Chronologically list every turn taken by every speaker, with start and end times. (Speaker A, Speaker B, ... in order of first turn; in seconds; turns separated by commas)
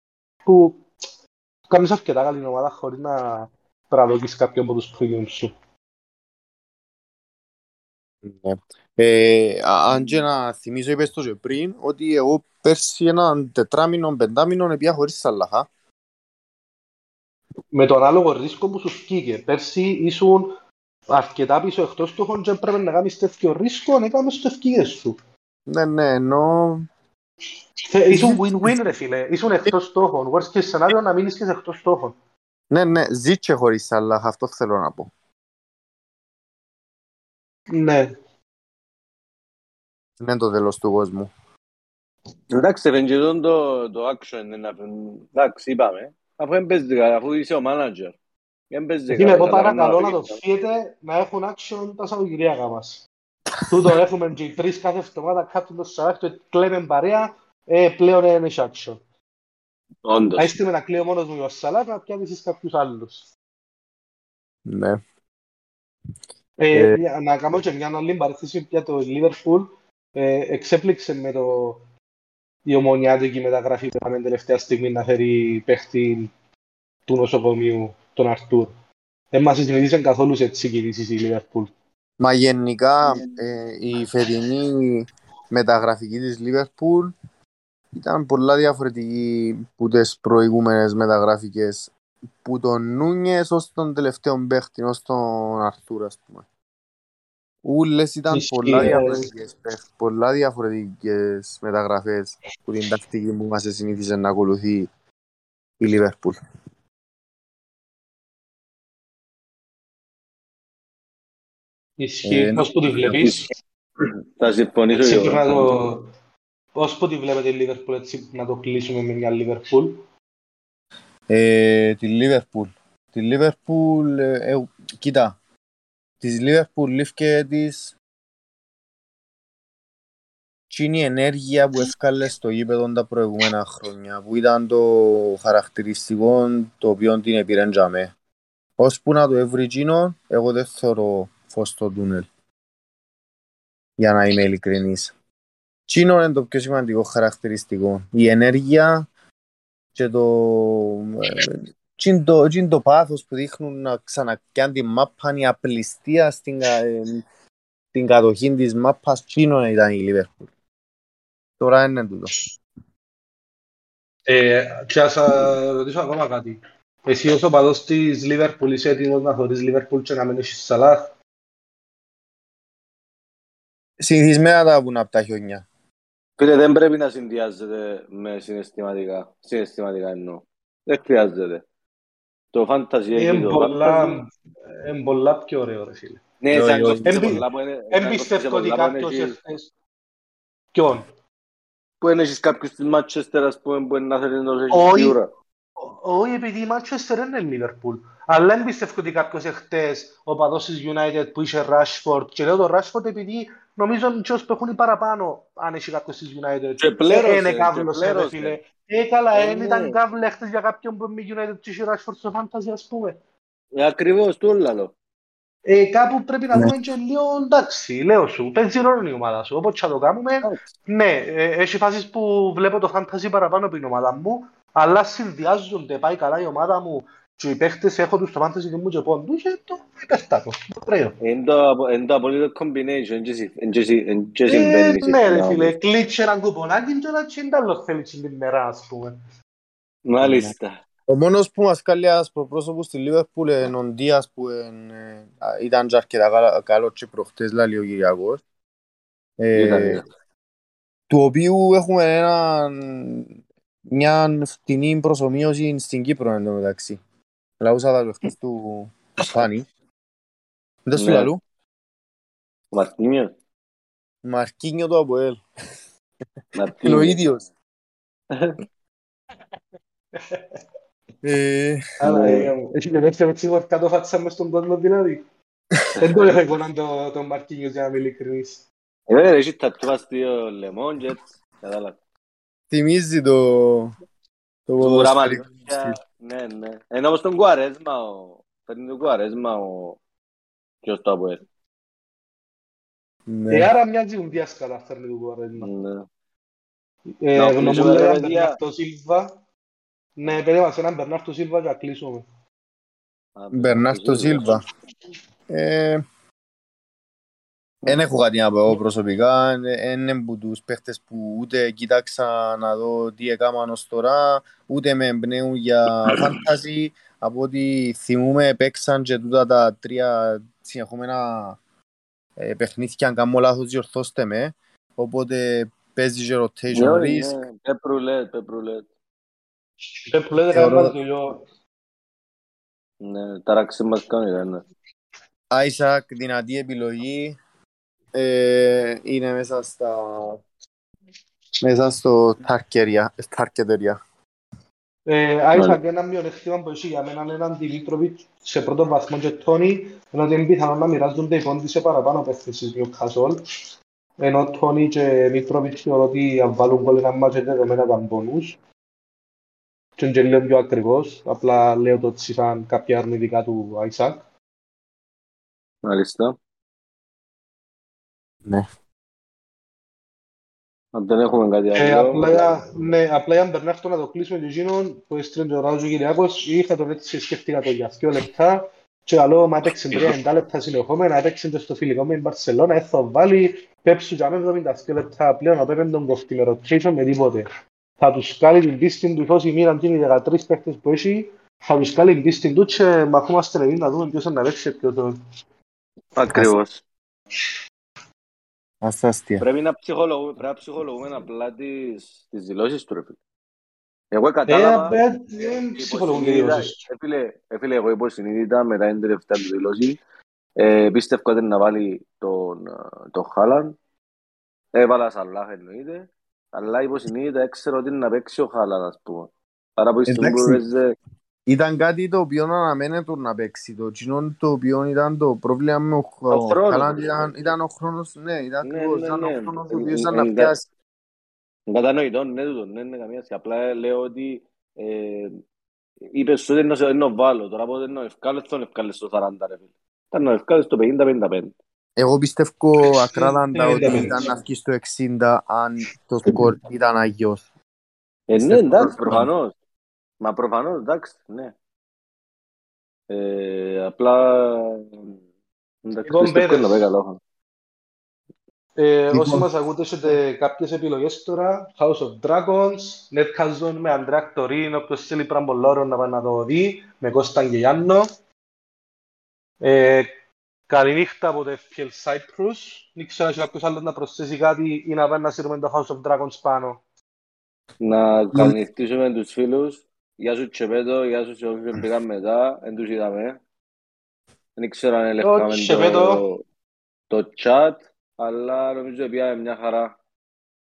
Speaker A: 0.5-0.8, Speaker A: 1.7-5.5, Speaker B: 8.2-15.7, Speaker A: 17.7-20.6, Speaker A: 21.1-25.2, Speaker B: 25.7-26.9, Speaker A: 27.9-32.1, Speaker B: 28.1-28.9, Speaker B: 32.7-35.1, Speaker A: 37.7-38.1, Speaker B: 40.2-41.3, Speaker C: 42.5-48.1, Speaker C: 48.7-50.4, Speaker A: 49.1-53.1, Speaker B: 53.6-53.9, Speaker A: 53.7-59.0, Speaker C: 60.0-60.5, Speaker A: 60.4-63.3, Speaker B: 64.7-65.0, Speaker A: 66.6-71.8, Speaker B: 66.7-67.0, Speaker A: 72.7-76.3, Speaker A: 77.1-78.7, Speaker A: 79.3-81.7, Speaker B: 82.2-87.1, Speaker B: 87.9-91.9, Speaker B: 92.4-96.4, Speaker B: 97.6-104.9, Speaker A: 98.3-99.3, Speaker B: 105.8-106.4, Speaker A: 112.0-113.5, Speaker B: 112.3-113.4, Speaker C: 114.3-115.7, Speaker A: 114.9-116.1, Speaker A: 116.8-120.0, Speaker B: 121.3-125.4, Speaker B: 126.2-128.0, Speaker B: 130.7-138.1, Speaker B: 138.8-142.3, Speaker B: 144.0-145.1, Speaker B: 145.9-149.1, Speaker B: 149.9-157.2, Speaker B: 157.9-160.5, Speaker B: 161.6-162.3, Speaker A: 164.3-171.1, Speaker B: 174.0-175.7, Speaker C: 176.4-181.6, Speaker C: 182.5-184.2, Speaker A: 183.1-186.2, Speaker C: 186.4-189.4, Speaker B: 186.5-187.4, Speaker A: 187.1-187.4, Speaker A: 187.9-189.7, Speaker A: 190.7-191.1, Speaker C: 192.0-195.3, Speaker A: 194.7-195.2, Speaker A: 195.8-213.2, Speaker C: 206.8-208.6, Speaker C: 209.3-210.0, Speaker C: 213.8-214.9, Speaker A: 215.7-231.2, Speaker C: 231.2-235.8, Speaker A: 234.5-239.2, Speaker C: 240.1-240.8, Speaker B: 240.2-240.5, Speaker B: 241.1-248.4, Speaker B: 249.4-250.0, Speaker C: 249.5-250.1, Speaker B: 251.1-253.3, Speaker B: 253.9-257.0, Speaker B: 257.6-259.7, Speaker B: 260.9-261.4, Speaker C: 261.0-261.3, Speaker C: 262.7-263.3, Speaker B: 264.2-265.4, Speaker C: 266.6-267.2, Speaker B: 266.8-267.5, Speaker A: 270.1-270.4, Speaker B: 271.2-271.8, Speaker A: 272.0-275.2, Speaker C: 272.0-272.5, Speaker C: 276.0-276.3, Speaker A: 276.0-278.6, Speaker C: 279.1-282.0, Speaker B: 282.7-283.9, Speaker B: 284.7-286.0, Speaker C: 284.8-290.0, Speaker C: 290.8-291.4, Speaker B: 293.3-293.7, Speaker A: 293.5-295.7, Speaker C: 295.6-296.1, Speaker A: 297.2-299.3, Speaker C: 297.4-298.6, Speaker A: 300.2-302.3, Speaker C: 303.4-304.4, Speaker B: 303.5-304.6, Speaker B: 305.5-306.0, Speaker B: 307.9-321.6, Speaker B: 322.4-327.4, Speaker C: 326.7-328.9, Speaker A: 330.1-331.4, Speaker B: 330.5-330.9, Speaker C: 333.0-334.6, Speaker B: 335.5-337.4, Speaker B: 338.1-340.4, Speaker B: 341.6-344.0, Speaker A: 345.1-353.4, Speaker C: 345.6-345.8, Speaker A: 354.2-358.6, Speaker A: 360.0-364.2, Speaker C: 365.8-366.4, Speaker C: 370.9-372.5, Speaker A: 371.8-387.5, Speaker A: 388.0-395.1, Speaker C: 396.2-396.8, Speaker B: 398.8-399.4, Speaker C: 399.4-403.2, Speaker C: 404.1-405.0, Speaker A: 404.5-406.8, Speaker C: 405.8-410.0, Speaker C: 410.6-413.8, Speaker C: 414.7-420.9, Speaker B: 420.1-420.6, Speaker B: 421.5-430.7, Speaker C: 426.3-427.3, Speaker C: 428.6-430.5, Speaker C: 431.7-435.4, Speaker C: 436.1-441.6, Speaker B: 442.0-447.5, Speaker A: 443.1-444.2, Speaker C: 448.3-449.6, Speaker B: 448.3-449.3, Speaker C: 450.2-451.5, Speaker C: 453.1-455.2, Speaker C: 455.9-457.2, Speaker A: 456.1-456.8, Speaker A: 458.8-468.1, Speaker B: 459.1-459.5, Speaker A: 469.6-470.1, Speaker A: 470.7-476.8, Speaker C: 477.8-483.4, Speaker C: 484.6-486.4, Speaker A: 485.2-486.2, Speaker C: 487.1-489.9